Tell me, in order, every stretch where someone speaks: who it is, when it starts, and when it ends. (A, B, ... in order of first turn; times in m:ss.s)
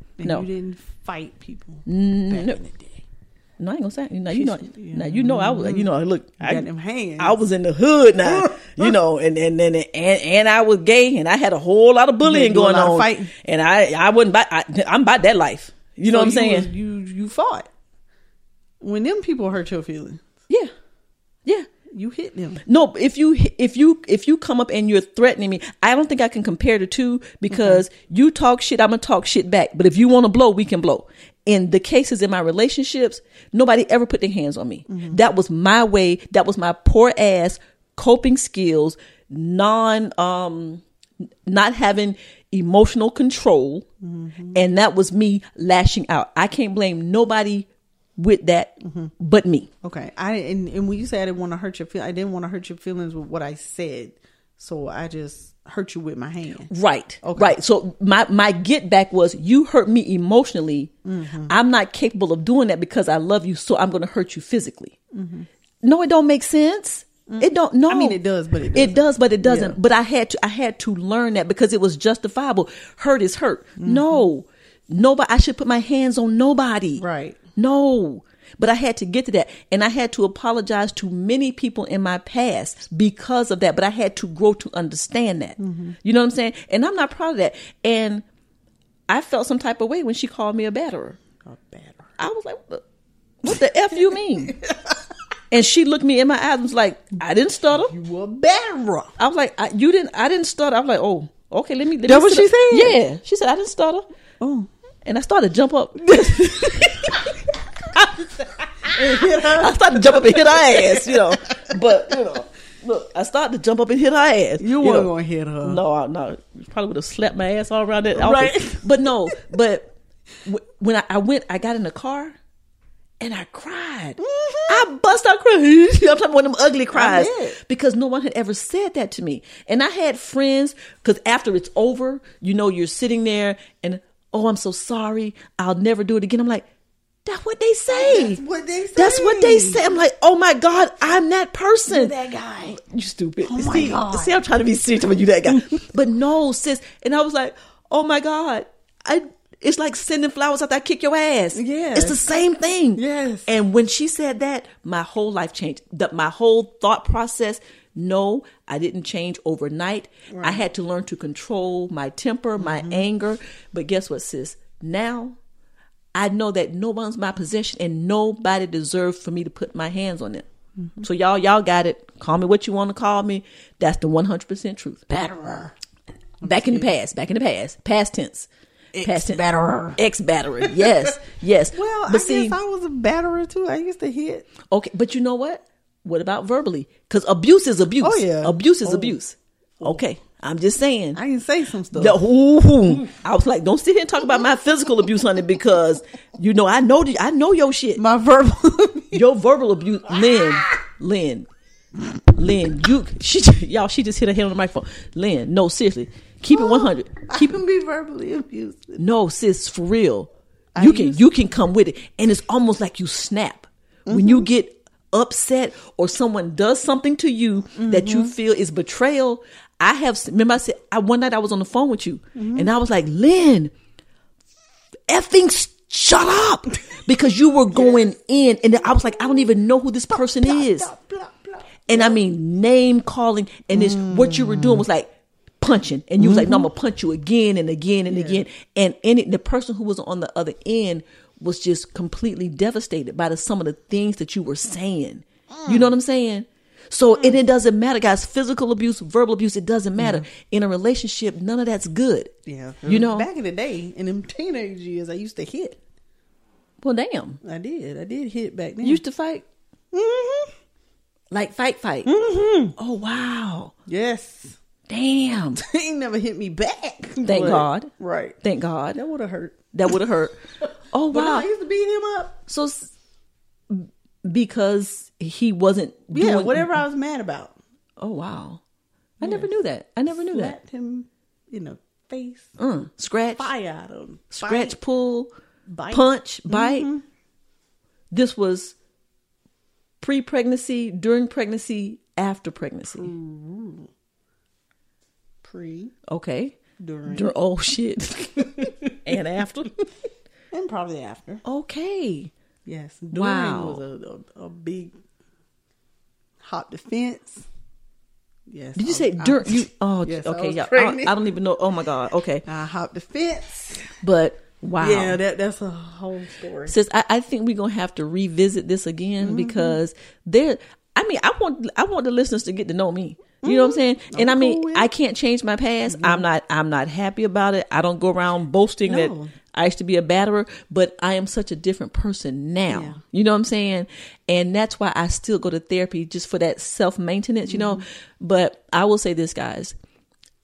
0:00.2-0:03.0 A
0:01.8-0:02.6 B
0:03.6-0:06.6 B
0:04.3-0:07.4 A
0:07.2-0:16.7 B
0:08.2-0:09.0 A
0:12.2-0:13.3 A
0:16.0-0:17.7 A
0:18.8-0:20.2 A
0:21.9-0:22.6 A
0:22.6-0:40.8 B
0:27.5-0:27.8 A
0:34.9-0:35.2 A
0:41.5-0:43.8 B
0:44.0-0:44.6 A
0:44.5-0:49.7 B
0:48.8-0:49.1 A
0:49.8-0:56.7 A
0:56.7-1:00.9 B
0:57.2-0:57.6 A
1:01.0-1:01.5 A
1:01.5-1:05.0 B
1:05.1-1:05.5 A
1:05.8-1:08.2 B
1:07.3-1:09.8 A
1:08.7-1:17.0 B
1:13.8-1:14.2 A
1:17.0-1:17.4 A
1:17.6-1:28.2 B
1:25.6-1:26.0 A
1:29.1-1:31.2 B
1:31.4-1:32.1 A
1:32.2-1:32.8 B
1:33.4-1:34.6 B
1:34.0-1:35.0 A
1:35.5-1:37.9 B
1:37.7-1:39.1 A
1:39.2-1:44.1 B
1:42.0-1:43.0 A
1:44.4-1:44.7 A
1:45.0-1:47.2 B
1:46.0-1:47.2 A
1:48.0-1:48.2 A
1:48.8-1:52.4 A
1:48.9-1:55.1 B
1:54.6-1:55.8 A
1:55.6-1:59.9 B
1:58.1-1:59.3 A
2:00.4-2:02.4 B
2:03.2-2:16.6 B
2:04.2-2:04.8 A
2:06.9-2:07.6 A
2:17.2-2:18.4 B
2:17.9-2:19.9 A
2:19.0-2:45.4 B
2:21.9-2:22.8 A
2:23.4-2:24.4 A
2:25.5-2:25.7 A
2:31.5-2:32.3 A
2:33.0-2:33.5 A
2:40.3-2:40.7 A
2:42.6-2:43.1 A
2:46.1-2:50.5 B
2:50.8-2:51.1 A
2:51.0-2:55.1 B
2:55.1-2:55.7 A
2:56.4-2:56.9 A
2:56.4-2:58.5 B
2:58.9-3:00.0 A
2:59.0-2:59.4 B
2:59.9-3:02.6 B
3:00.6-3:01.1 A
3:01.7-3:04.5 A
3:04.7-3:11.2 B
3:08.0-3:09.2 A
3:11.1-3:12.2 A
3:11.9-3:18.0 B
3:18.0-3:19.2 A
3:19.1-3:21.5 B
3:20.1-3:20.8 A
3:22.3-3:27.6 B
3:26.5-3:29.0 A
3:29.0-3:43.7 B
3:30.7-3:31.3 A
3:34.0-3:34.5 A
3:37.7-3:38.3 A
3:42.3-3:42.7 A
3:45.1-3:50.9 B
3:47.7-3:48.1 A
3:48.8-3:49.5 A
3:50.1-3:52.2 A
3:51.9-3:55.1 B
3:53.7-3:54.8 A
3:55.6-4:12.3 B
3:56.2-3:56.7 A
3:58.1-3:58.4 A
4:05.5-4:05.9 A
4:07.1-4:07.4 A
4:10.0-4:10.3 A
4:12.4-4:15.8 A
4:12.8-4:13.3 B
4:16.8-4:17.4 B
4:17.4-4:19.0 A
4:18.8-4:19.4 B
4:19.9-4:20.5 A
4:21.3-4:22.1 B
4:22.0-4:22.7 A
4:22.8-4:23.7 B
4:23.8-4:24.6 A
4:24.9-4:25.6 B
4:25.6-4:28.4 A
4:27.2-4:27.9 B
4:28.4-4:29.0 B
4:28.9-4:30.0 A
4:29.7-4:30.4 B
4:30.6-4:32.4 A
4:30.9-4:31.5 B
4:32.5-4:32.9 B
4:33.7-4:36.8 B
4:36.1-4:37.6 A
4:38.0-4:38.6 B
4:39.2-4:39.5 A
4:39.2-4:40.5 B
4:40.2-4:42.6 A
4:42.6-4:43.5 B
4:43.4-4:44.8 A
4:44.3-4:45.3 B
4:45.7-4:47.0 A
4:45.9-4:46.9 B
4:48.1-4:48.7 B
4:50.0-4:53.1 B
4:52.9-4:53.9 A
4:55.4-4:55.9 A
4:56.1-4:59.8 B
4:56.8-4:57.3 A
4:58.4-4:59.0 A
5:00.5-5:01.4 A
5:01.4-5:02.3 B
5:02.6-5:04.9 A
5:03.1-5:03.8 B
5:06.4-5:07.4 A
5:08.5-5:11.2 A
5:08.7-5:12.4 B
5:12.4-5:13.9 A
5:14.0-5:15.2 B
5:14.8-5:16.8 A
5:16.7-5:39.7 B
5:19.2-5:19.8 A
5:23.4-5:24.9 A
5:25.9-5:26.2 A
5:28.8-5:29.3 A
5:32.7-5:33.0 A
5:37.5-5:37.8 A